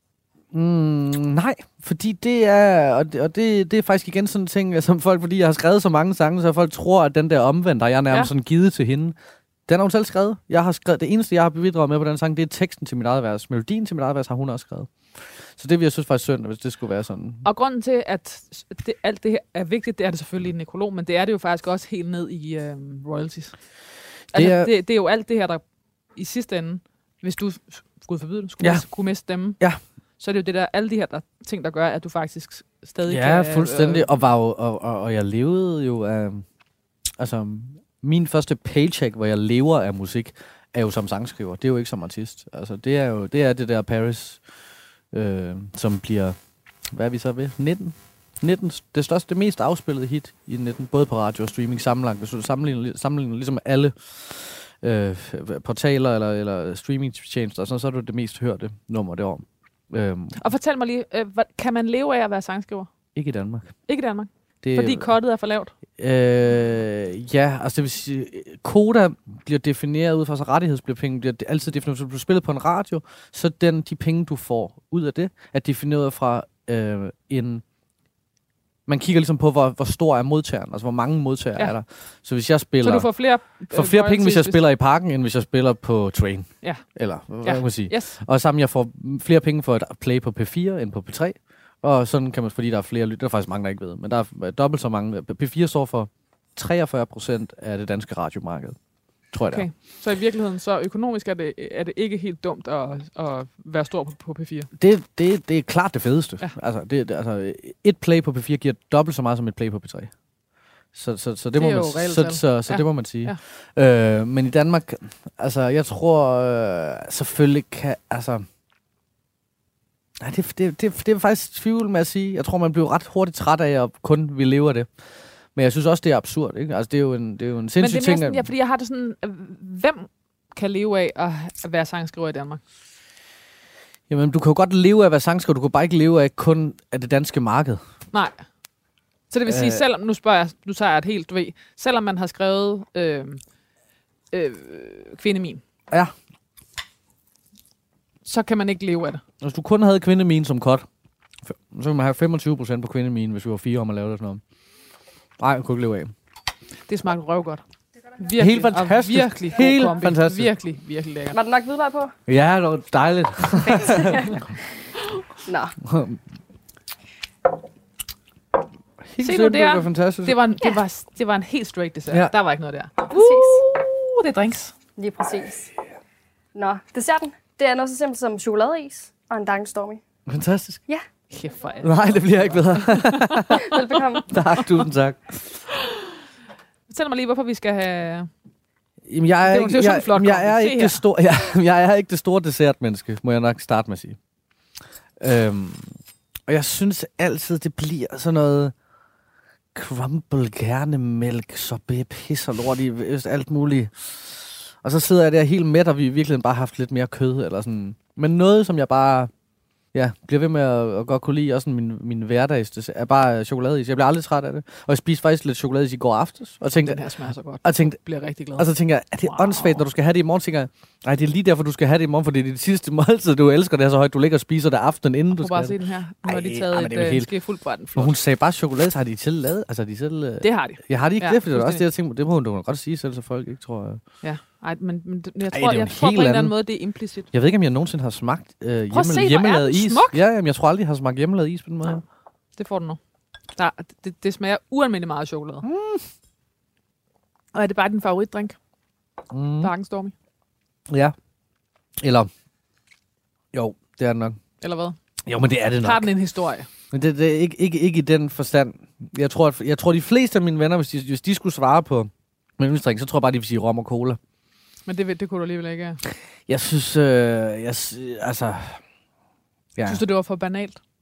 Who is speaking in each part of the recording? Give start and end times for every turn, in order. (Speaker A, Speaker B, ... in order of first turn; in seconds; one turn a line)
Speaker A: 0.5-9.2
Speaker A: 9.7-17.5
Speaker B: 17.4-34.1
Speaker A: 24.3-24.7
Speaker A: 28.6-28.9
Speaker A: 29.5-29.8
Speaker A: 33.1-36.5
Speaker A: 37.2-44.5
Speaker A: 45.1-60.4
Speaker B: 60.4-62.9
Speaker A: 63.1-63.8
Speaker B: 63.9-65.7
Speaker A: 64.6-65.1
Speaker A: 66.0-77.6
Speaker A: 78.9-98.8
Speaker B: 82.8-84.6
Speaker B: 86.6-88.1
Speaker A: 99.3-99.7
Speaker B: 99.5-104.7
Speaker A: 104.8-110.2
Speaker A: 110.9-118.5
Speaker B: 111.5-113.4
Speaker A: 120.2-128.5
Speaker B: 127.8-132.6
Speaker A: 134.1-137.8
Speaker B: 138.1-138.4
Speaker B: 139.3-143.4
Speaker A: 139.5-139.8
Speaker B: 144.3-145.6
Speaker B: 148.2-149.2
Speaker A: 149.4-150.9
Speaker A: 151.4-154.4
Speaker A: 155.4-156.1
Speaker B: 156.9-157.6
Speaker B: 158.1-161.4
Speaker A: 158.4-160.5
Speaker C: 161.3-162.2
Speaker A: 162.3-164.3
Speaker C: 163.6-164.6
Speaker C: 165.4-165.8
Speaker A: 165.8-166.2
Speaker A: 169.0-170.4
Speaker B: 169.2-174.7
Speaker C: 173.1-173.7
Speaker C: 175.0-175.7
Speaker C: 176.5-180.0
Speaker A: 180.3-180.8
Speaker B: 181.3-183.6
Speaker A: 181.8-183.7
Speaker C: 183.5-184.3
Speaker A: 184.3-185.6
Speaker B: 186.9-188.3
Speaker A: 189.1-194.2
Speaker B: 189.5-191.0
Speaker A: 195.2-198.8
Speaker A: 199.7-209.3
Speaker A: 209.9-218.0
Speaker B: 216.8-218.7
Speaker A: 218.6-227.3
Speaker B: 219.3-219.8
Speaker B: 225.4-228.1
Speaker A: 227.9-234.0
Speaker B: 230.4-231.9
Speaker B: 234.2-237.3
Speaker A: 235.5-236.6
Speaker A: 237.3-242.0
Speaker B: 238.9-240.2
Speaker B: 242.6-243.0
Speaker B: 243.6-245.7
Speaker A: 245.6-246.1
Speaker B: 247.5-248.6
Speaker A: 249.3-249.7
Speaker B: 249.6-250.1
Speaker A: 250.9-251.1
Speaker A: 252.0-252.3
Speaker A: 253.5-254.4
Speaker B: 254.6-255.0
Speaker A: 255.2-256.1
Speaker B: 255.8-256.7
Speaker A: 256.9-264.2
Speaker B: 264.9-266.0
Speaker A: 266.5-268.8
Speaker A: 269.8-270.0
Speaker B: 269.9-270.8